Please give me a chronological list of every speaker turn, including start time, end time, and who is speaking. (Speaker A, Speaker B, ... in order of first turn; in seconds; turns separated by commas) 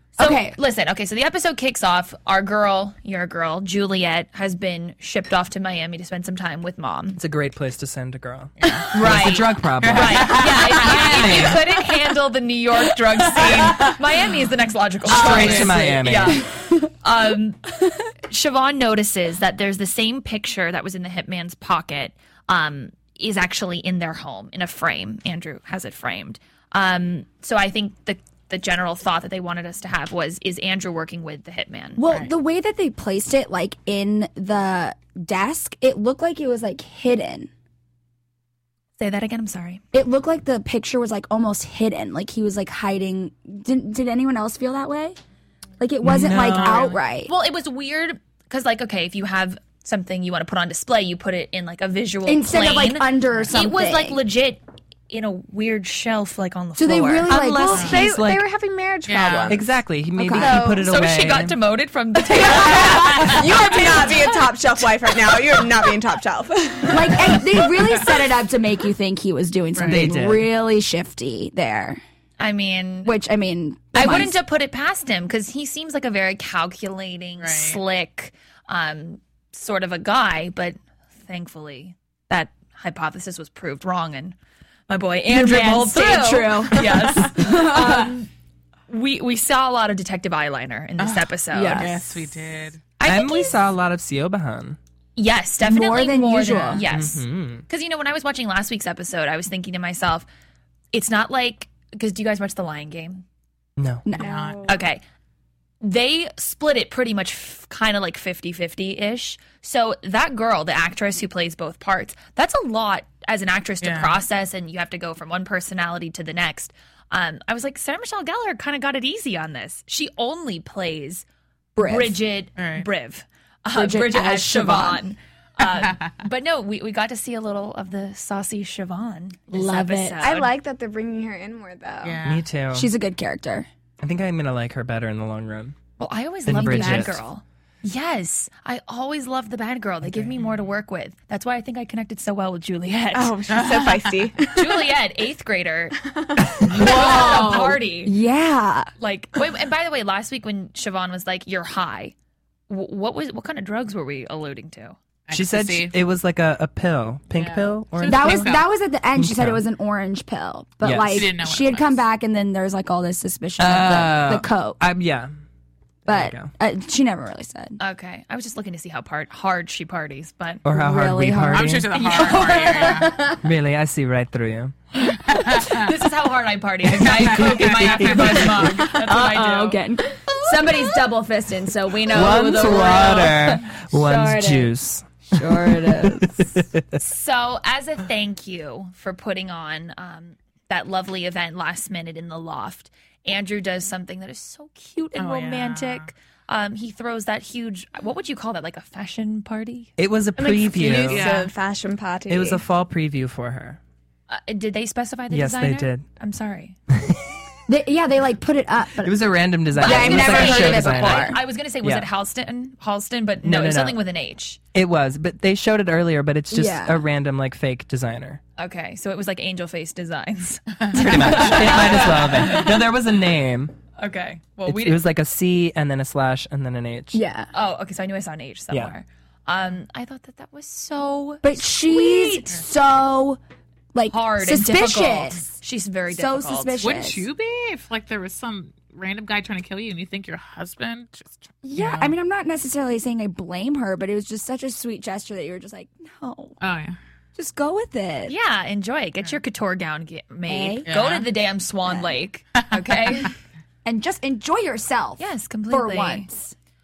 Speaker A: 0.2-0.6, Speaker B: 0.2-7.2, Speaker C: 7.2-11.7, Speaker D: 8.6-8.9, Speaker B: 8.9-17.6, Speaker D: 9.8-10.8, Speaker C: 15.1-16.5, Speaker D: 15.2-15.8, Speaker B: 18.3-32.0, Speaker A: 32.0-37.5, Speaker B: 39.0-39.8, Speaker A: 39.9-45.2, Speaker A: 45.8-47.3, Speaker C: 46.0-46.9, Speaker B: 46.4-57.4, Speaker A: 52.3-54.2, Speaker A: 56.8-58.0, Speaker C: 57.3-58.5, Speaker E: 57.7-60.9, Speaker D: 59.1-59.6, Speaker C: 59.5-61.6, Speaker A: 60.2-60.8, Speaker B: 60.6-63.4, Speaker E: 62.4-67.7, Speaker A: 62.6-63.3, Speaker A: 66.9-72.0, Speaker D: 69.8-70.0, Speaker C: 69.8-70.5, Speaker B: 72.4-73.2, Speaker A: 73.0-74.4, Speaker B: 73.9-84.4, Speaker D: 77.4-77.8, Speaker B: 84.9-88.3, Speaker A: 85.3-88.2, Speaker B: 88.9-92.2, Speaker D: 91.0-92.8, Speaker A: 91.5-92.0, Speaker B: 93.0-93.6, Speaker C: 93.0-94.8, Speaker B: 95.2-100.3, Speaker A: 95.6-96.8, Speaker C: 96.8-97.6, Speaker B: 100.9-103.2, Speaker C: 103.8-104.1, Speaker A: 104.0-104.5, Speaker D: 104.2-104.7, Speaker E: 104.2-104.7, Speaker B: 104.7-105.0, Speaker B: 105.8-121.2, Speaker D: 113.8-114.2, Speaker A: 121.8-122.2, Speaker B: 121.8-130.5, Speaker D: 122.6-122.9, Speaker A: 123.7-125.1, Speaker D: 125.6-126.1, Speaker A: 129.5-130.3, Speaker E: 130.2-132.2, Speaker D: 132.0-132.4, Speaker C: 132.2-132.9, Speaker A: 132.7-133.7, Speaker C: 134.0-135.8, Speaker B: 136.0-143.4, Speaker C: 136.4-137.2, Speaker A: 136.6-137.1, Speaker E: 143.1-144.9, Speaker D: 143.5-144.2, Speaker B: 144.5-146.0, Speaker E: 146.1-147.7, Speaker A: 146.7-148.9, Speaker B: 146.7-148.2, Speaker B: 149.0-152.1, Speaker B: 152.7-155.0, Speaker D: 155.3-155.9, Speaker C: 155.3-158.5, Speaker D: 157.3-158.7, Speaker A: 158.1-164.8, Speaker C: 159.2-159.6, Speaker C: 160.8-161.3, Speaker D: 161.1-162.0, Speaker C: 163.6-165.3, Speaker C: 166.1-166.5, Speaker A: 166.1-167.8, Speaker B: 167.8-170.6, Speaker C: 170.7-171.9, Speaker A: 170.7-173.4, Speaker D: 171.5-173.2, Speaker C: 173.4-174.7, Speaker D: 175.3-175.8, Speaker B: 175.6-179.8, Speaker D: 177.0-178.1, Speaker C: 177.4-178.6, Speaker A: 178.5-184.7, Speaker C: 182.1-187.0, Speaker A: 185.3-186.5, Speaker B: 187.0-199.9, Speaker D: 195.2-196.1, Speaker C: 200.0-201.3, Speaker E: 200.4-202.6, Speaker D: 201.1-201.5, Speaker C: 202.3-203.8, Speaker B: 204.3-206.8, Speaker C: 205.3-206.1, Speaker A: 207.7-211.4, Speaker C: 209.0-212.1, Speaker B: 209.8-214.6, Speaker E: 209.9-211.1, Speaker C: 213.4-214.0, Speaker C: 214.7-218.4, Speaker A: 216.5-217.0, Speaker B: 218.6-222.7, Speaker D: 220.8-222.0, Speaker C: 221.0-223.7, Speaker A: 221.1-222.2, Speaker B: 224.0-225.0, Speaker C: 224.7-227.2, Speaker A: 227.1-227.5, Speaker B: 227.5-232.5, Speaker A: 231.4-233.4, Speaker A: 233.9-237.3, Speaker B: 234.1-236.8, Speaker D: 236.8-242.1, Speaker A: 241.6-246.6, Speaker D: 246.6-247.0, Speaker A: 247.3-248.3, Speaker B: 248.3-253.3, Speaker A: 250.5-250.9, Speaker D: 250.9-251.3, Speaker A: 253.8-256.6, Speaker B: 255.2-256.3